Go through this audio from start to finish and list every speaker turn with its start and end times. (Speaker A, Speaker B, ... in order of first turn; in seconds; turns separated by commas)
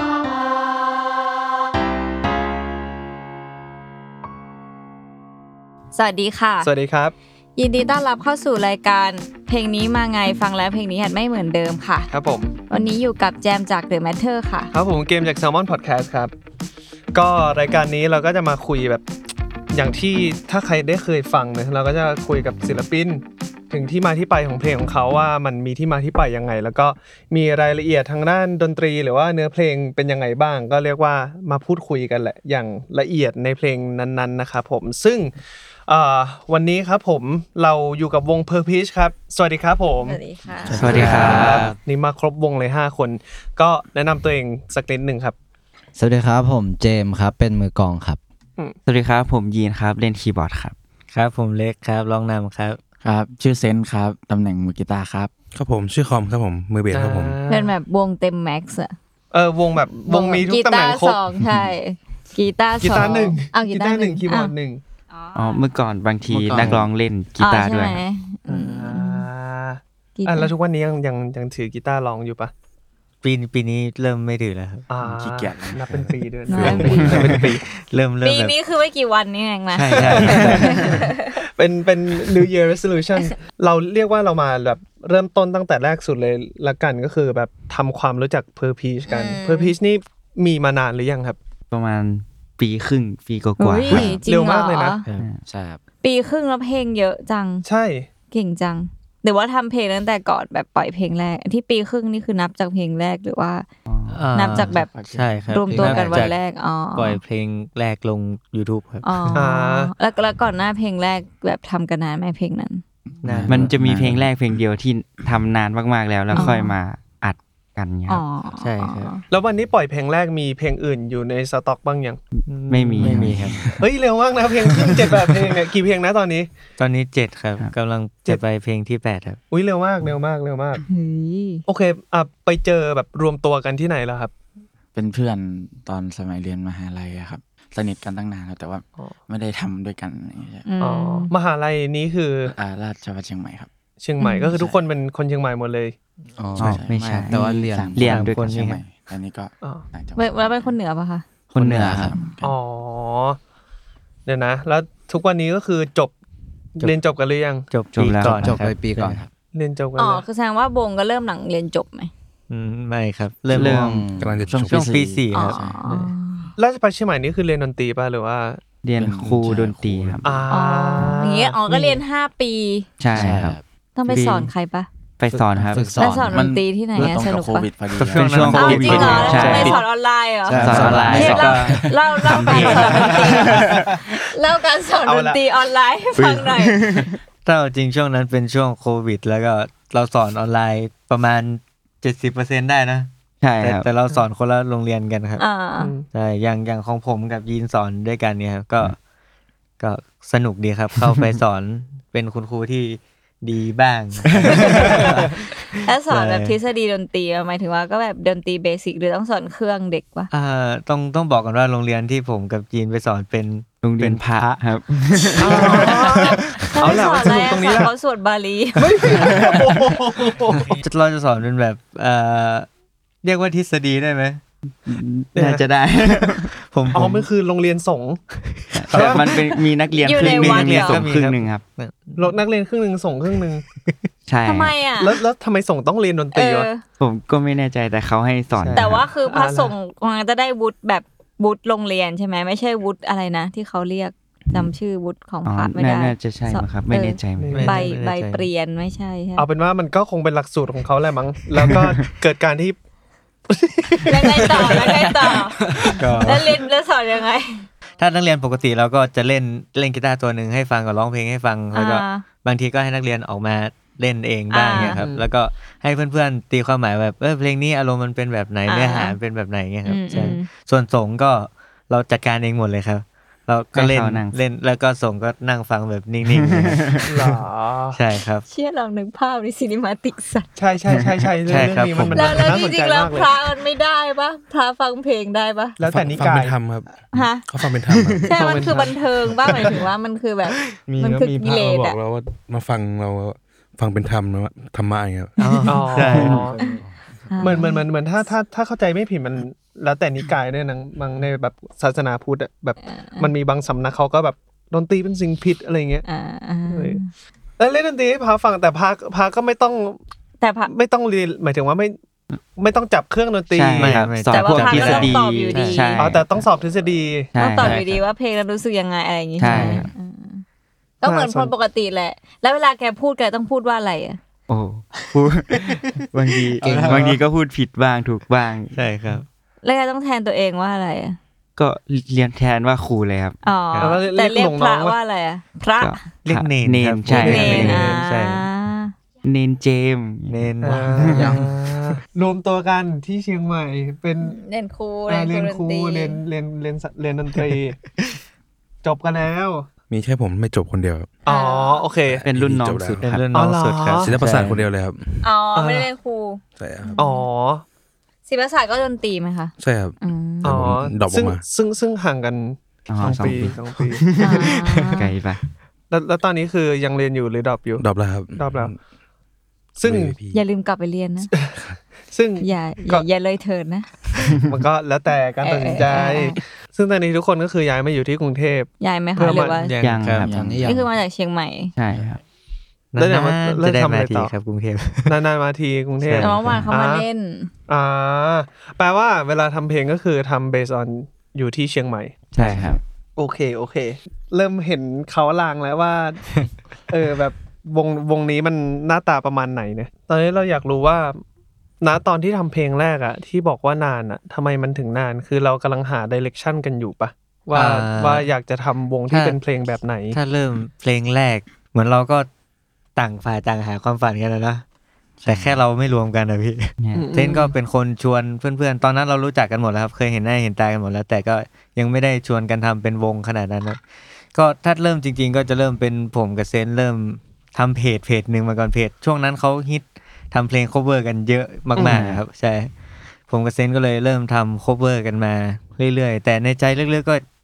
Speaker A: 5.9-6.7, Speaker B: 6.6-7.1, Speaker A: 7.6-12.1, Speaker B: 12.1-12.6, Speaker A: 12.7-14.7, Speaker B: 14.7-16.3, Speaker B: 17.1-19.0, Speaker B: 19.7-35.3, Speaker B: 35.9-40.2, Speaker A: 40.0-40.9, Speaker C: 40.7-41.3, Speaker D: 40.7-41.7, Speaker B: 40.7-45.3, Speaker E: 40.8-41.8, Speaker F: 46.0-48.2, Speaker D: 48.9-50.7, Speaker E: 51.1-52.8, Speaker G: 53.0-55.3, Speaker C: 55.5-57.4, Speaker B: 56.9-57.8, Speaker A: 57.5-58.9, Speaker B: 59.3-61.2, Speaker A: 60.1-64.5, Speaker B: 62.8-64.8, Speaker A: 65.1-65.7, Speaker D: 65.3-68.0, Speaker C: 66.3-66.7, Speaker F: 66.5-66.9, Speaker G: 66.5-66.8, Speaker A: 67.4-69.3, Speaker B: 68.5-72.5, Speaker A: 70.2-70.5, Speaker E: 73.2-74.8, Speaker B: 74.9-77.6, Speaker G: 75.0-76.1, Speaker A: 76.5-77.1, Speaker C: 76.5-77.5, Speaker E: 76.7-78.5, Speaker A: 78.2-81.4, Speaker E: 79.7-81.0, Speaker B: 80.1-91.4, Speaker A: 89.1-89.7, Speaker D: 91.7-94.2, Speaker A: 93.6-95.0, Speaker B: 93.9-95.0, Speaker F: 95.5-95.8, Speaker A: 96.0-97.6, Speaker B: 97.6-98.1, Speaker A: 98.3-103.7, Speaker D: 103.9-104.2, Speaker E: 104.1-106.3, Speaker A: 104.3-104.9, Speaker G: 104.7-106.3, Speaker A: 105.5-107.2, Speaker E: 106.9-109.4, Speaker A: 109.0-112.8, Speaker B: 109.3-109.9, Speaker E: 113.2-113.7, Speaker G: 113.2-114.3, Speaker D: 113.5-118.2, Speaker A: 116.3-116.7, Speaker A: 118.1-119.2, Speaker E: 118.6-119.1, Speaker B: 119.3-122.2, Speaker E: 122.5-123.7, Speaker D: 122.7-123.6, Speaker G: 123.0-123.6, Speaker F: 123.1-123.4, Speaker B: 123.8-126.5, Speaker E: 126.8-129.4, Speaker B: 129.5-130.8, Speaker A: 130.9-131.6, Speaker B: 131.7-134.3, Speaker G: 134.9-140.7, Speaker A: 140.6-141.3, Speaker B: 140.8-142.5, Speaker G: 142.5-143.7, Speaker B: 144.0-145.9, Speaker A: 144.2-144.5, Speaker G: 144.5-144.8, Speaker F: 146.4-148.1, Speaker G: 146.6-150.7, Speaker E: 146.6-147.4, Speaker D: 147.9-148.6, Speaker E: 147.9-148.8, Speaker A: 150.2-151.3, Speaker D: 151.5-152.1, Speaker F: 151.6-152.2, Speaker G: 151.6-152.6, Speaker B: 152.4-153.4, Speaker B: 154.2-156.1, Speaker B: 156.8-157.7, Speaker E: 157.7-159.2, Speaker D: 157.9-158.5, Speaker F: 158.2-159.3, Speaker B: 159.5-160.2, Speaker A: 160.0-162.1, Speaker E: 162.5-164.0, Speaker D: 163.5-163.9, Speaker F: 163.5-164.6, Speaker C: 164.2-165.0, Speaker G: 164.5-165.8, Speaker E: 164.6-166.1, Speaker A: 165.3-166.5, Speaker B: 166.6-168.6, Speaker D: 168.8-170.3, Speaker G: 169.0-170.5, Speaker B: 170.2-172.0, Speaker A: 170.5-172.9, Speaker D: 173.0-174.5, Speaker F: 173.1-173.6, Speaker G: 173.2-173.4, Speaker A: 173.9-174.9, Speaker D: 175.2-176.0, Speaker F: 175.5-176.4, Speaker A: 175.9-177.7, Speaker G: 176.2-179.5, Speaker E: 178.0-179.8, Speaker D: 178.1-179.8, Speaker A: 178.5-186.9, Speaker F: 180.5-181.8, Speaker D: 180.5-183.9, Speaker E: 180.6-181.8, Speaker G: 181.1-181.7, Speaker B: 182.8-184.1, Speaker B: 185.0-185.4, Speaker D: 186.2-187.1, Speaker E: 187.4-193.1, Speaker D: 193.4-193.9, Speaker E: 193.6-195.4, Speaker A: 195.4-195.9, Speaker B: 195.8-196.0, Speaker E: 196.1-198.9, Speaker E: 199.8-205.3, Speaker A: 204.5-205.1, Speaker A: 205.8-210.3, Speaker E: 206.1-206.6, Speaker E: 210.3-214.6, Speaker D: 213.8-216.4, Speaker E: 215.2-215.8, Speaker B: 215.4-217.9, Speaker A: 215.4-219.2, Speaker B: 218.8-220.7, Speaker D: 219.2-219.7, Speaker E: 220.7-222.7, Speaker E: 223.2-224.4, Speaker D: 224.8-226.5, Speaker B: 225.3-225.6, Speaker E: 226.4-227.3, Speaker B: 226.9-228.2, Speaker E: 228.4-229.2, Speaker D: 228.7-231.6, Speaker B: 228.9-229.5, Speaker A: 230.0-231.1, Speaker E: 230.2-232.3, Speaker B: 232.2-233.6, Speaker E: 233.7-234.1, Speaker D: 234.3-234.8, Speaker A: 234.4-235.2, Speaker B: 235.0-236.7, Speaker A: 236.3-236.8, Speaker D: 237.0-239.1, Speaker E: 238.5-238.9, Speaker A: 238.7-249.4, Speaker B: 239.2-239.7, Speaker D: 245.4-247.7, Speaker B: 247.4-247.9, Speaker E: 247.5-248.5, Speaker B: 249.4-252.8, Speaker B: 253.5-255.4, Speaker A: 254.1-257.6, Speaker E: 256.0-256.5, Speaker B: 256.2-256.6, Speaker E: 258.0-277.4, Speaker A: 261.7-262.2, Speaker A: 264.5-265.0, Speaker B: 264.8-265.2, Speaker A: 268.7-269.2, Speaker A: 269.8-270.5, Speaker D: 273.7-274.4, Speaker D: 276.3-277.0, Speaker B: 277.1-278.0, Speaker E: 277.9-278.4, Speaker A: 278.5-280.5, Speaker B: 280.6-283.5, Speaker E: 281.5-282.5, Speaker A: 282.1-285.8, Speaker B: 285.8-286.6, Speaker C: 285.8-288.8, Speaker A: 287.1-287.5, Speaker A: 288.2-292.0, Speaker B: 288.2-289.8, Speaker C: 290.7-295.6, Speaker E: 295.4-296.5, Speaker B: 295.6-296.6, Speaker D: 296.0-296.4, Speaker A: 296.5-296.8, Speaker F: 296.7-296.9, Speaker A: 297.3-297.9, Speaker B: 297.4-306.1, Speaker A: 302.8-303.3, Speaker A: 306.0-307.1, Speaker B: 306.7-307.0, Speaker B: 307.6-310.0, Speaker A: 310.4-310.7, Speaker B: 310.7-312.0, Speaker B: 312.6-314.2, Speaker D: 313.5-316.2, Speaker E: 313.8-316.0, Speaker A: 314.2-316.0, Speaker B: 316.0-317.3, Speaker D: 317.3-317.9, Speaker A: 317.3-320.4, Speaker D: 319.4-319.9, Speaker E: 319.4-319.9, Speaker A: 321.0-324.2, Speaker B: 321.0-321.5, Speaker D: 324.5-328.7, Speaker F: 326.6-327.2, Speaker E: 326.6-327.1, Speaker E: 328.7-329.2, Speaker A: 329.6-331.2, Speaker D: 331.6-333.4, Speaker A: 333.4-336.0, Speaker B: 333.8-335.0, Speaker D: 335.8-337.8, Speaker E: 336.2-338.4, Speaker B: 337.2-338.0, Speaker A: 337.2-338.9, Speaker D: 339.2-341.3, Speaker E: 340.3-341.4, Speaker B: 340.6-344.4, Speaker F: 341.1-341.5, Speaker A: 344.2-346.2, Speaker B: 345.1-347.8, Speaker B: 348.8-349.7, Speaker C: 349.9-351.2, Speaker A: 351.2-351.9, Speaker B: 351.2-352.2, Speaker C: 352.0-353.2, Speaker D: 352.2-353.0, Speaker E: 353.0-354.6, Speaker B: 353.3-354.1, Speaker C: 354.0-355.3, Speaker A: 355.2-357.3, Speaker B: 355.5-355.9, Speaker C: 356.6-357.0, Speaker B: 357.0-357.6, Speaker A: 358.3-360.6, Speaker C: 359.6-361.4, Speaker B: 360.4-364.5, Speaker D: 362.9-365.4, Speaker A: 364.1-365.1, Speaker B: 365.9-368.7, Speaker C: 367.8-368.8, Speaker B: 369.8-370.2, Speaker C: 369.8-370.4, Speaker A: 370.3-371.3, Speaker B: 371.3-371.6, Speaker B: 372.1-373.0, Speaker A: 372.4-374.0, Speaker B: 374.3-379.6, Speaker A: 375.4-376.4, Speaker A: 378.8-379.7, Speaker E: 379.4-380.3, Speaker D: 379.8-380.5, Speaker G: 380.2-380.8, Speaker F: 380.3-380.9, Speaker A: 380.6-381.7, Speaker D: 381.7-382.2, Speaker E: 382.9-385.2, Speaker B: 382.9-384.3, Speaker B: 385.1-387.1, Speaker E: 386.0-386.6, Speaker A: 386.2-387.5, Speaker B: 387.7-392.2, Speaker E: 392.3-392.8, Speaker D: 392.3-392.8, Speaker B: 393.2-401.2, Speaker B: 401.8-410.2, Speaker E: 407.5-408.3, Speaker E: 409.1-409.4, Speaker E: 410.1-412.3, Speaker E: 412.9-414.6, Speaker E: 415.2-423.8, Speaker F: 415.3-415.6, Speaker D: 416.8-417.1, Speaker B: 416.9-417.5, Speaker E: 424.3-432.7, Speaker B: 431.8-432.0, Speaker D: 431.8-432.2, Speaker E: 433.3-437.2